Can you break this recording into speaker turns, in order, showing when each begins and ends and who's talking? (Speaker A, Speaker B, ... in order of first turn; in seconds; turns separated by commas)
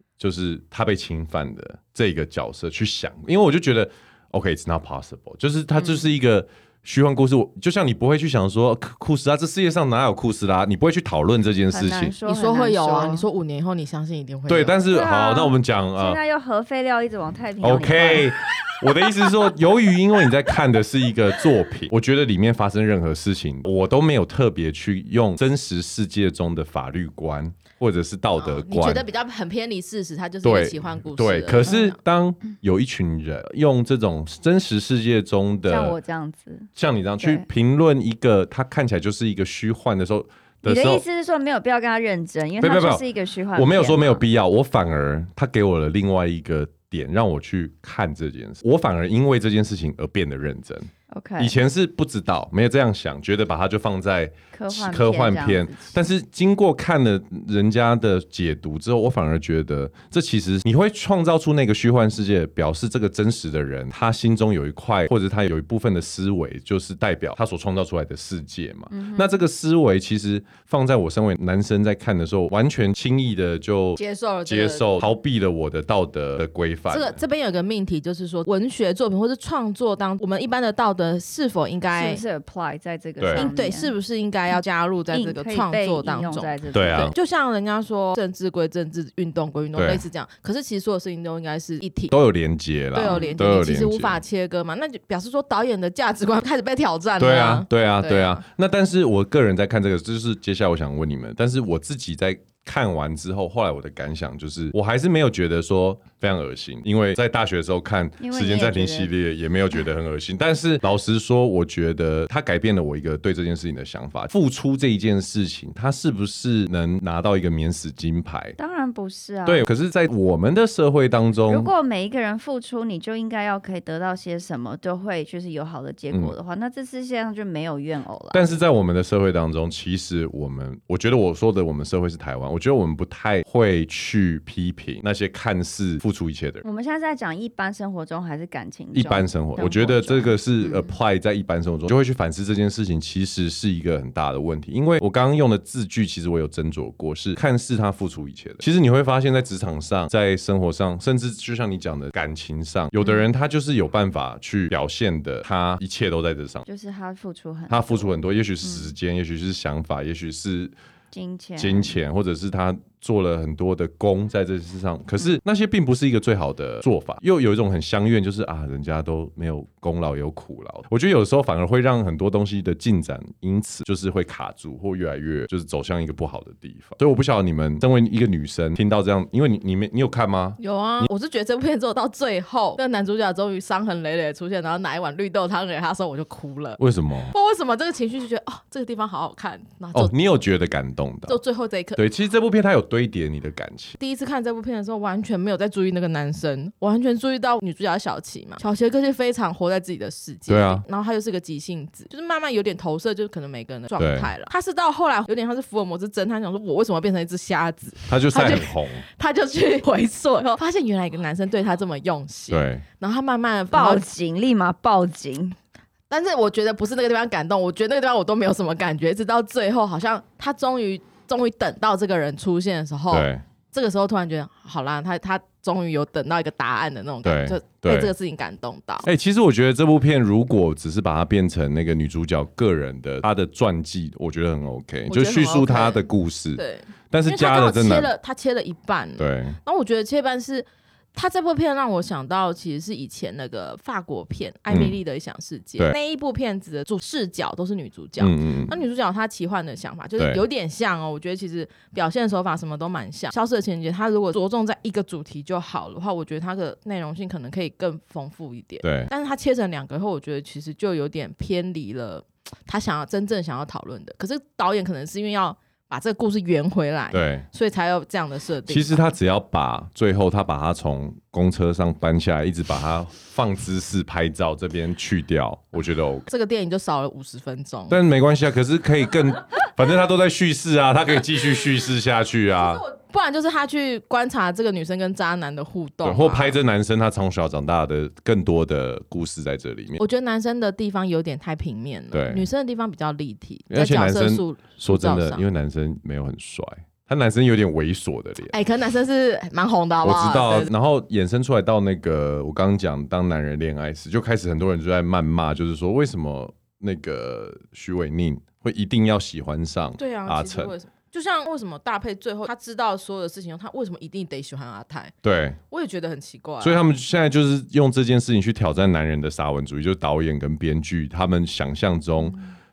Speaker A: 0.2-12.2, Speaker B: 11.7-13.2, Speaker C: 12.2-14.8, Speaker A: 14.5-16.2, Speaker B: 14.9-18.3, Speaker A: 17.6-29.1, Speaker C: 28.4-31.9, Speaker A: 30.4-36.0, Speaker B: 35.7-36.7, Speaker A: 36.8-41.0, Speaker B: 37.2-37.5, Speaker B: 40.6-44.2, Speaker A: 42.6-77.2, Speaker B: 51.1-51.5, Speaker B: 54.5-56.0, Speaker B: 68.9-69.4, Speaker C: 74.0-75.0, Speaker C: 76.9-82.2, Speaker B: 81.9-83.9, Speaker A: 83.2-83.5, Speaker C: 83.3-92.1, Speaker B: 85.1-87.1, Speaker A: 86.7-87.1, Speaker A: 89.8-90.0, Speaker A: 92.1-94.2, Speaker C: 93.0-98.4, Speaker B: 93.0-93.4, Speaker A: 97.2-118.6, Speaker B: 108.2-109.1, Speaker B: 118.6-119.7, Speaker A: 119.5-121.7, Speaker B: 121.5-128.5, Speaker A: 128.3-136.6, Speaker B: 136.6-140.9, Speaker A: 138.9-156.7, Speaker B: 156.7-158.9, Speaker A: 157.7-160.7, Speaker B: 161.1-162.0, Speaker A: 161.6-181.1, Speaker C: 180.6-186.8, Speaker A: 186.8-187.3, Speaker C: 187.3-190.1, Speaker A: 189.9-191.4, Speaker C: 191.3-192.0, Speaker A: 192.0-194.0, Speaker C: 194.0-214.1, Speaker A: 200.5-200.8, Speaker A: 204.0-204.3, Speaker A: 208.1-209.1, Speaker A: 212.5-212.8, Speaker B: 213.7-215.6, Speaker C: 216.1-229.1, Speaker A: 223.1-223.4, Speaker A: 227.2-228.1, Speaker A: 229.0-238.1, Speaker C: 235.1-268.9, Speaker A: 239.2-239.6, Speaker A: 244.7-245.0, Speaker A: 248.2-248.8, Speaker A: 250.2-250.4, Speaker A: 258.8-259.1, Speaker A: 267.1-267.4, Speaker A: 268.6-276.3, Speaker C: 276.3-278.0, Speaker A: 277.9-282.9, Speaker C: 282.6-286.6, Speaker A: 286.0-290.0, Speaker C: 290.0-295.4, Speaker A: 292.1-292.5, Speaker A: 293.7-298.6, Speaker C: 298.5-300.7, Speaker A: 300.0-310.7, Speaker C: 310.0-315.1, Speaker A: 315.2-315.6, Speaker C: 315.7-316.8, Speaker A: 316.6-322.4